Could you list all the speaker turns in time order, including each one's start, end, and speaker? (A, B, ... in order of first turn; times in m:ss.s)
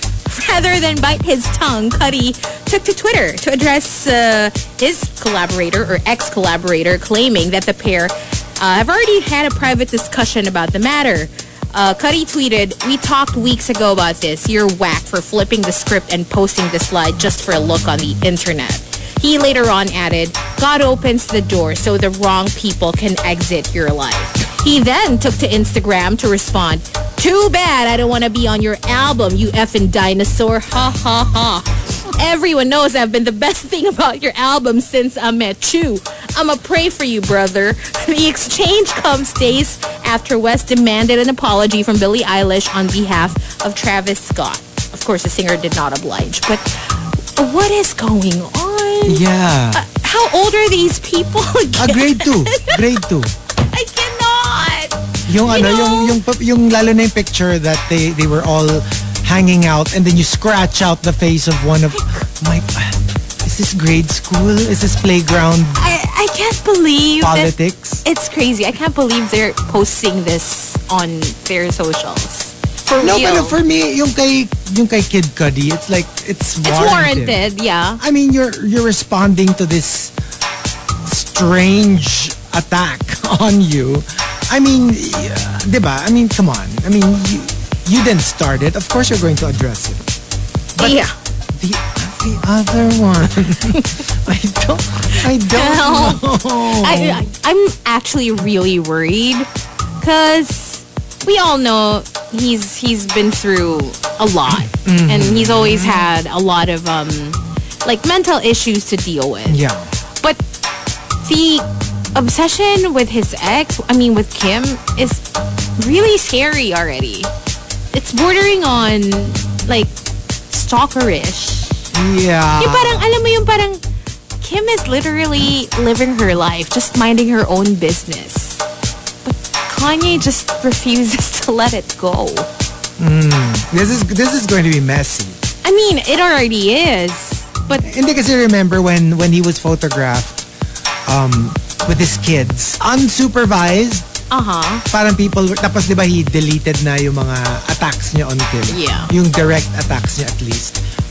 0:00.3-0:46.7 A
0:47.4-0:49.2 A
0:49.0-0:49.8 B
0:49.8-0:52.8 A
0:51.8-0:53.3 B
0:53.7-0:56.2 A
0:55.3-1:05.9 B
1:05.8-1:13.6 A
1:07.2-1:08.0 B
1:13.0-1:17.4 B
1:16.6-1:18.0 A
1:18.0-1:20.1 B
1:21.0-1:30.0 B
1:30.8-1:31.0 B
1:30.8-1:31.1 A
1:31.5-1:37.3 B
1:35.5-1:39.5 A
1:40.0-1:49.6 A
1:44.5-1:46.1 B
1:49.5-1:49.9 B
1:51.2-1:55.2 A
1:55.8-1:57.3 A
1:57.9-1:59.9 A
2:00.5-2:01.8 A
2:01.9-2:03.0 B
2:02.6-2:03.8 A
2:04.4-2:08.6 A
2:09.2-2:12.5 A
2:13.0-2:15.4 B
2:15.6-2:17.8 A
2:17.8-2:20.4 B
2:21.1-2:24.1 B
2:24.3-2:24.8 A
2:24.9-2:30.8 B
2:28.7-2:29.1 A